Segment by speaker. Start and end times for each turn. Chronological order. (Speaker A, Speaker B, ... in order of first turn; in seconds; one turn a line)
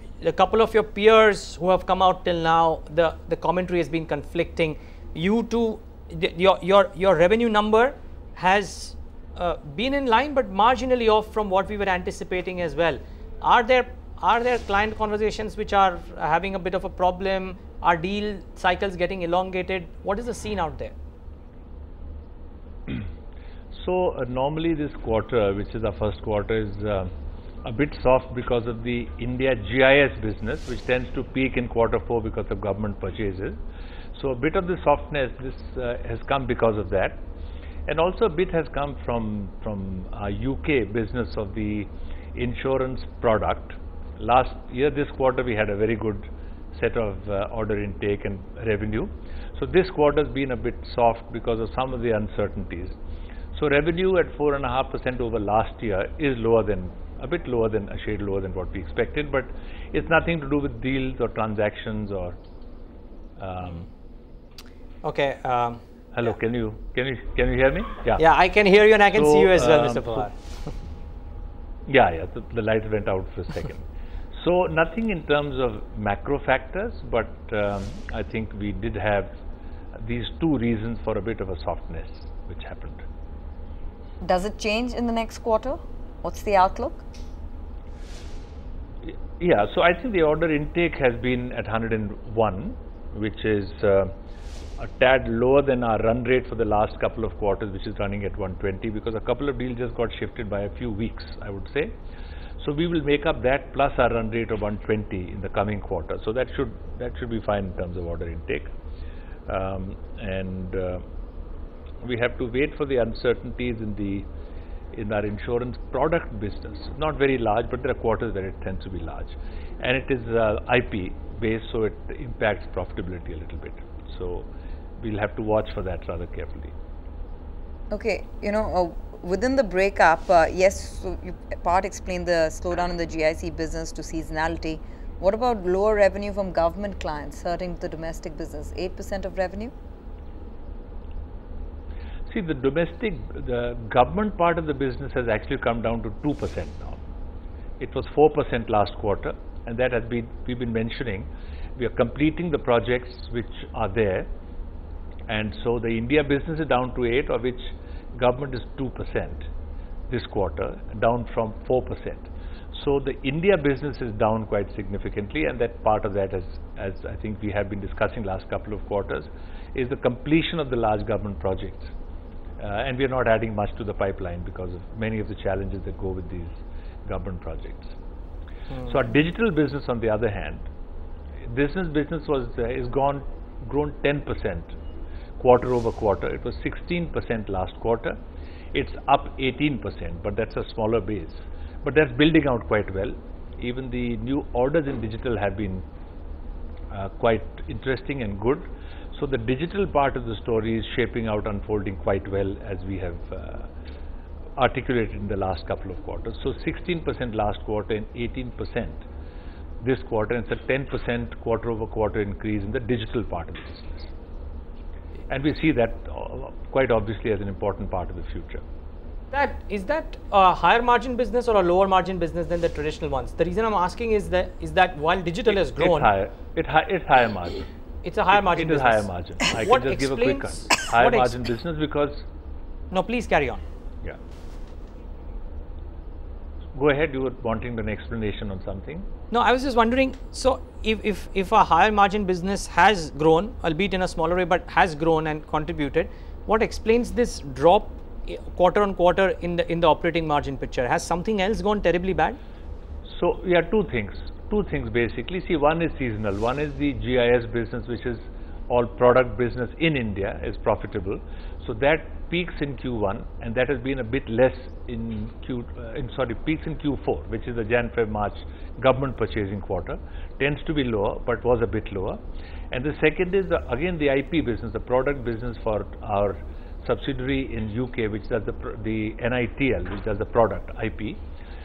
Speaker A: 0.2-20.9
Speaker B: 23.7-27.1
Speaker B: 27.6-33.6
Speaker B: 34.1-37.2
Speaker B: 37.9-53.0
Speaker B: 53.5-62.4
Speaker B: 63.4-63.9
Speaker A: 65.0-65.8
Speaker B: 66.1-68.2
Speaker A: 68.2-70.3
Speaker B: 69.1-70.3
Speaker B: 71.8-79.3
Speaker B: 79.9-83.0
Speaker C: 84.2-87.0
Speaker B: 89.0-94.1
Speaker B: 94.8-101.9
Speaker B: 102.6-108.7
Speaker B: 109.5-111.0
Speaker B: 112.0-114.3
Speaker B: 114.9-124.5
Speaker B: 125.0-126.7
Speaker C: 127.9-139.7
Speaker B: 142.3-147.0
Speaker B: 147.8-154.3
Speaker B: 155.3-159.5
Speaker B: 160.1-171.9
Speaker B: 172.6-177.9
Speaker B: 178.8-180.7
Speaker B: 181.4-184.7
Speaker B: 185.4-188.2
Speaker B: 188.7-195.8
Speaker B: 196.9-203.7
Speaker B: 204.6-209.0
Speaker B: 209.8-214.1
Speaker B: 215.3-218.6
Speaker A: 219.3-226.1
Speaker B: 225.7-227.7
Speaker A: 228.0-231.4
Speaker B: 228.3-232.2
Speaker A: 232.9-233.6
Speaker B: 236.7-239.1
Speaker A: 239.3-252.4
Speaker B: 253.0-272.2
Speaker B: 272.7-281.2